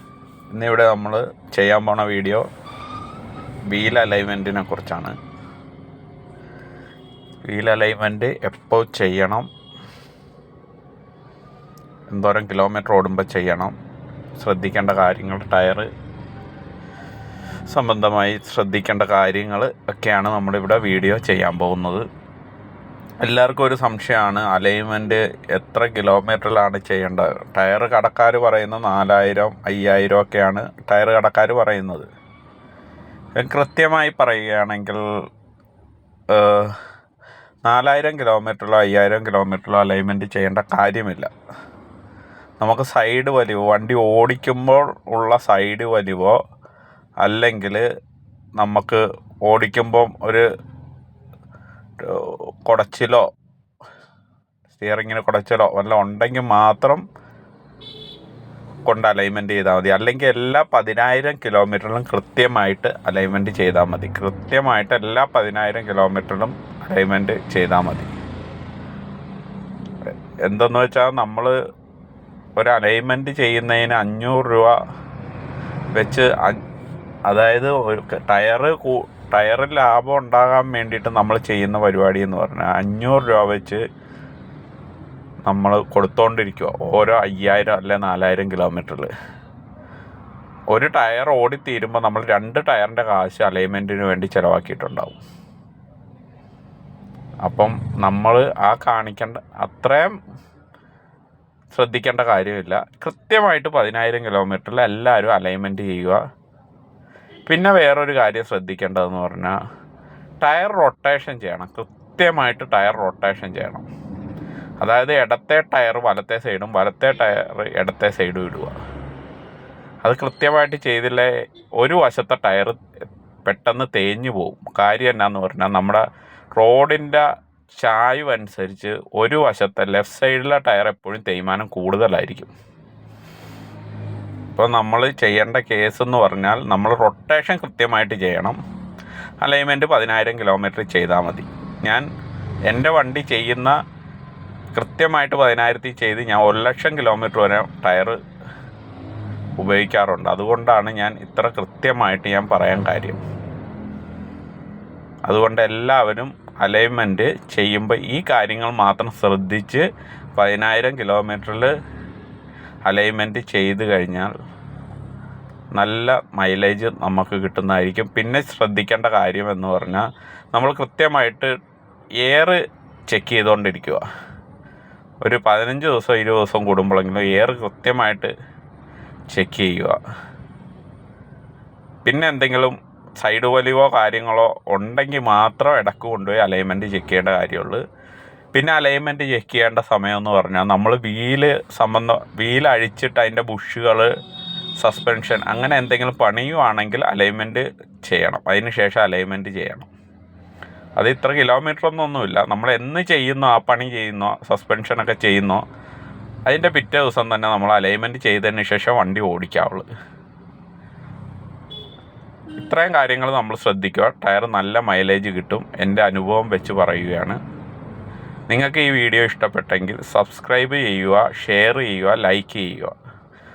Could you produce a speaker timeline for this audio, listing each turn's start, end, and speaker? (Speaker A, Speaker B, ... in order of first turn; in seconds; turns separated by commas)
Speaker A: 0.5-2.4, Speaker A: 3.7-5.1, Speaker A: 7.5-9.5, Speaker A: 12.1-13.7, Speaker A: 14.4-15.9, Speaker A: 17.7-22.0, Speaker A: 23.2-32.1, Speaker A: 33.4-35.0, Speaker A: 36.3-36.8, Speaker A: 37.6-41.3, Speaker A: 42.6-46.3, Speaker A: 47.2-47.8, Speaker A: 48.6-50.4, Speaker A: 52.0-53.2, Speaker A: 54.7-57.0, Speaker A: 58.9-68.1, Speaker A: 70.4-71.5, Speaker A: 72.6-74.7, Speaker A: 75.9-76.6, Speaker A: 77.3-83.8, Speaker A: 85.5-89.1, Speaker A: 90.7-95.2, Speaker A: 97.4-100.1, Speaker A: 101.7-106.2, Speaker A: 107.5-109.6, Speaker A: 110.4-113.8, Speaker A: 114.8-118.7, Speaker A: 120.0-122.8, Speaker A: 123.4-126.0, Speaker A: 126.5-132.5, Speaker A: 134.5-138.6, Speaker A: 139.4-142.1, Speaker A: 142.7-143.8, Speaker A: 144.7-148.2, Speaker A: 149.6-153.2, Speaker A: 155.3-159.8, Speaker A: 160.4-161.7, Speaker A: 162.9-164.3, Speaker A: 165.8-171.5, Speaker A: 172.2-172.6, Speaker A: 173.1-174.0, Speaker A: 175.2-178.3, Speaker A: 179.3-179.9, Speaker A: 182.0-187.8, Speaker A: 188.5-194.1, Speaker A: 194.8-199.9, Speaker A: 201.0-205.6, Speaker A: 206.5-209.8, Speaker A: 212.5-217.4, Speaker A: 218.5-222.9